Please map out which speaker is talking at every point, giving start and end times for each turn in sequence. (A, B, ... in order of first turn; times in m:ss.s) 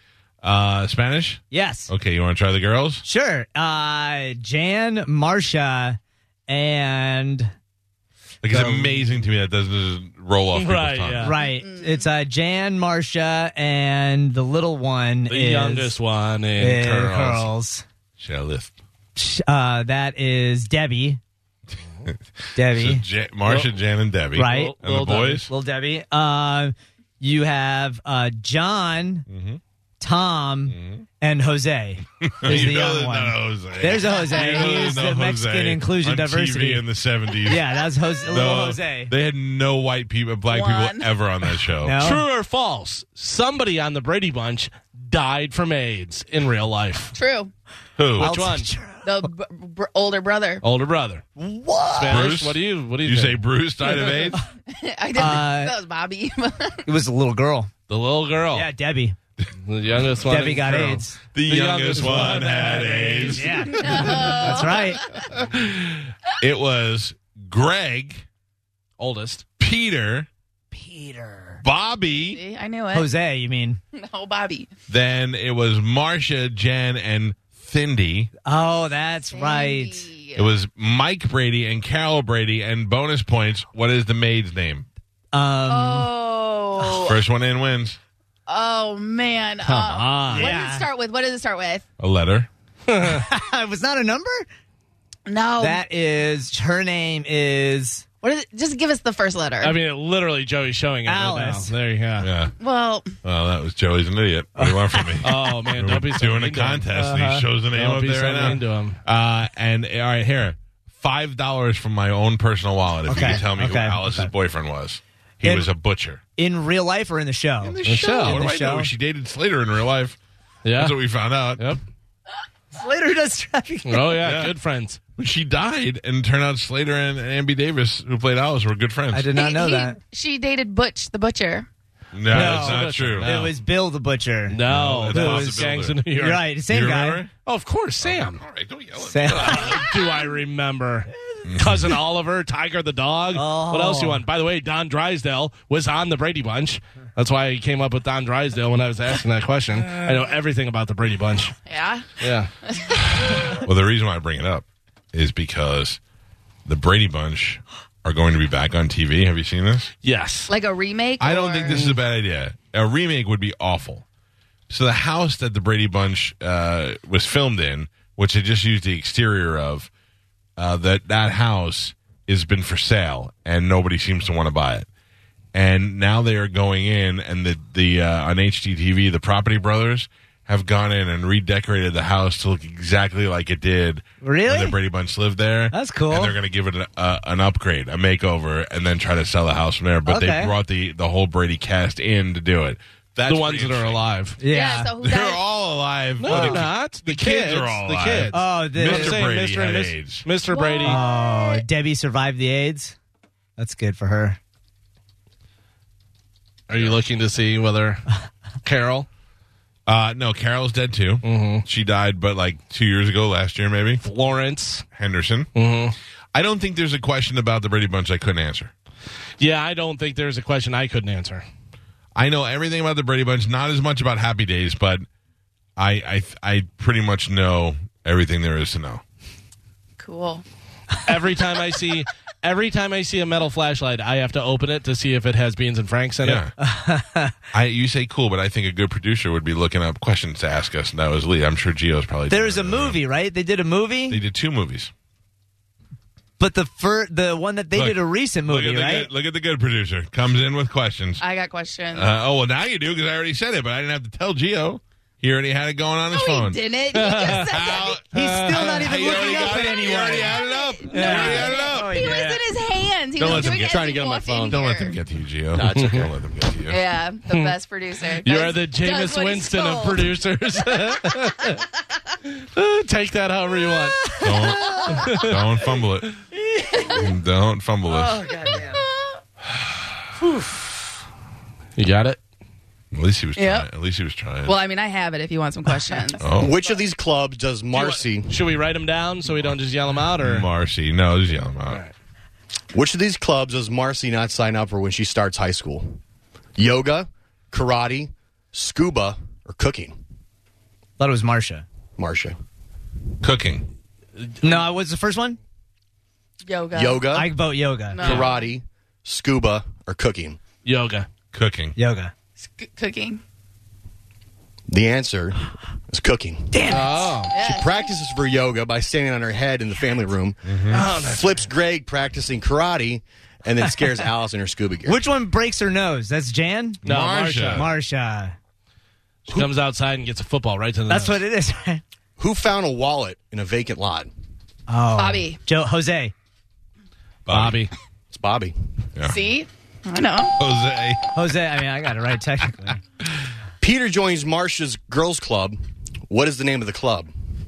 0:00.4-0:03.0 A
0:01.5-0:01.9 B
0:03.0-0:07.5 B
0:08.4-0:11.3 A
0:08.5-0:09.1 B
0:10.5-0:11.4 C
0:11.2-0:16.0 B
0:11.4-0:12.0 D
0:15.3-0:17.5 C
0:16.6-0:17.8 B
0:18.2-0:18.7 A
0:19.2-0:21.2 B
0:22.0-0:25.5 A
0:22.6-0:23.0 B
0:23.4-0:23.7 C
0:24.3-0:24.8 B
0:24.4-0:25.4 C
0:25.4-0:29.3 B
0:29.3-0:29.6 A
0:30.0-0:36.8 B
0:30.7-0:31.0 A
0:32.2-0:37.7 A
0:34.4-0:35.0 C
0:37.4-0:39.1 B
0:38.3-0:42.0 A
0:40.5-0:41.1 D
0:41.8-0:42.2 B
0:42.0-0:47.1 C
0:47.1-0:47.5 D
0:48.0-0:48.4 A
0:48.2-0:48.7 C
0:48.2-0:49.3 B
0:49.0-0:50.6 D
0:50.6-0:51.2 C
0:51.4-0:52.3 B
0:51.9-0:53.4 C
0:52.1-0:54.4 A
0:54.7-0:56.8 D
0:55.1-0:55.7 B
0:56.8-0:57.7 B
0:57.9-0:58.7 C
0:58.5-0:59.2 B
0:59.6-1:04.2 C
1:00.2-1:01.2 B
1:01.3-1:04.2 A
1:02.0-1:05.0 B
1:03.7-1:05.3 D
1:05.3-1:08.2 A
1:09.0-1:09.4 C
1:09.6-1:10.3 A
1:10.7-1:11.6 B
1:11.6-1:12.4 A
1:12.3-1:13.1 D
1:12.9-1:13.8 B
1:13.9-1:14.7 D
1:14.9-1:18.3 A
1:18.4-1:20.1 B
1:19.3-1:20.5 D
1:20.4-1:24.9 A
1:25.3-1:26.1 B
1:25.7-1:27.2 D
1:27.0-1:28.0 A
1:28.5-1:31.8 D
1:29.6-1:30.5 C
1:30.3-1:30.9 B
1:32.0-1:32.5 A
1:32.9-1:33.2 C
1:33.0-1:34.5 B
1:35.3-1:35.8 D
1:35.6-1:38.0 B
1:38.2-1:39.8 D
1:39.6-1:42.3 C
1:41.0-1:41.7 B
1:42.2-1:42.5 A
1:42.6-1:43.2 D
1:43.2-1:56.2 A
1:44.6-1:45.3 B
1:45.2-1:46.9 C
1:46.9-1:47.4 B
1:47.7-1:49.0 C
1:53.1-1:54.3 B
1:55.4-1:55.7 B
1:56.4-1:58.9 B
1:57.6-2:00.2 A
1:57.8-1:58.4 C
2:00.6-2:01.0 C
2:00.8-2:01.7 A
2:02.7-2:04.2 B
2:03.8-2:05.0 C
2:04.2-2:04.5 A
2:05.2-2:09.3 A
2:09.1-2:10.0 B
2:09.3-2:11.7 D
2:12.1-2:13.3 A
2:12.3-2:13.5 C
2:12.3-2:17.2 B
2:14.5-2:16.4 C
2:14.6-2:16.0 A
2:16.7-2:17.3 A
2:17.4-2:18.4 C
2:18.0-2:20.0 A
2:19.0-2:19.8 B
2:19.3-2:31.5 C
2:21.4-2:21.9 A
2:23.3-2:24.2 B
2:31.7-2:32.1 D
2:32.2-2:32.5 C
2:32.6-2:33.0 D
2:33.2-2:36.0 A
2:36.6-2:39.9 A
2:40.0-2:40.5 C
2:40.5-2:41.9 D
2:41.2-2:44.0 A
2:41.7-2:42.0 C
2:44.7-2:49.9 A
2:50.6-2:54.9 A
2:55.5-3:14.0 A
3:04.2-3:04.8 B
3:05.7-3:06.4 B
3:10.0-3:10.5 B
3:13.3-3:14.4 C
3:14.4-3:14.9 B
3:14.5-3:15.4 D
3:15.0-3:20.3 A
3:16.2-3:21.0 C
3:16.3-3:16.6 B
3:18.3-3:19.3 B
3:20.5-3:21.6 D
3:20.8-3:23.0 B
3:23.6-3:24.4 B
3:26.7-3:28.1 C
3:28.6-3:29.1 C
3:29.9-3:34.0 A
3:31.2-3:31.6 C
3:34.0-3:34.8 C
3:34.9-3:35.5 A
3:35.5-3:36.0 C
3:36.3-3:38.7 A
3:39.4-3:41.4 C
3:42.2-3:45.0 A
3:45.8-3:49.0 A
3:50.0-3:50.4 D
3:51.0-3:56.4 C
3:56.2-3:56.5 A
3:56.6-3:57.4 B
3:57.5-4:03.0 A
4:02.3-4:04.2 B
4:04.1-4:04.9 A
4:06.4-4:09.1 B
4:07.7-4:11.2 A
4:11.2-4:12.1 D
4:11.9-4:16.6 A
4:16.1-4:18.0 D
4:16.9-4:17.5 C
4:17.2-4:22.0 A
4:18.1-4:22.4 B
4:18.1-4:19.0 C
4:19.1-4:25.0 D
4:20.9-4:21.5 C
4:23.2-4:23.8 A
4:23.2-4:24.6 E
4:24.5-4:26.8 A
4:25.5-4:26.1 E
4:25.7-4:26.1 C
4:26.7-4:30.1 D
4:27.3-4:27.6 C
4:28.2-4:31.6 C
4:32.3-4:34.1 C
4:34.2-4:36.2 A
4:34.2-4:35.1 B
4:34.9-4:35.4 C
4:36.7-4:37.0 D
4:36.9-4:38.2 A
4:37.9-4:38.8 B
4:38.4-4:39.1 D
4:41.8-4:42.2 C
4:42.9-4:44.6 A
4:43.4-4:43.7 D
4:44.4-4:46.3 D
4:46.2-4:46.5 A
4:46.4-4:48.4 E
4:47.7-4:50.5 C
4:50.2-4:51.8 A
4:51.7-4:51.9 C
4:52.7-4:56.0 E
4:56.6-5:00.0 E
5:01.0-5:01.6 B
5:02.0-5:02.4 E
5:03.2-5:03.6 A
5:04.2-5:04.5 C
5:04.4-5:05.4 B
5:06.4-5:07.1 D
5:06.7-5:07.3 E
5:07.1-5:08.0 B
5:07.9-5:08.5 D
5:08.0-5:10.4 E
5:08.0-5:08.3 C
5:10.6-5:11.1 C
5:11.3-5:11.8 A
5:11.8-5:12.1 B
5:12.4-5:13.2 D
5:14.7-5:16.7 E
5:16.5-5:17.2 B
5:16.7-5:17.3 C
5:17.3-5:17.9 D
5:17.4-5:25.0 E
5:20.4-5:20.8 A
5:20.7-5:21.5 C
5:24.8-5:28.3 B
5:26.8-5:27.7 A
5:26.8-5:27.7 C
5:29.3-5:31.2 C
5:30.9-5:31.8 B
5:32.2-5:34.1 E
5:34.7-5:36.1 B
5:35.0-5:35.4 D
5:37.3-5:37.6 A
5:37.3-5:37.7 C
5:38.1-5:38.5 E
5:39.0-5:40.3 D
5:40.4-5:41.0 A
5:41.1-5:42.8 B
5:43.6-5:45.6 E
5:46.1-5:47.1 E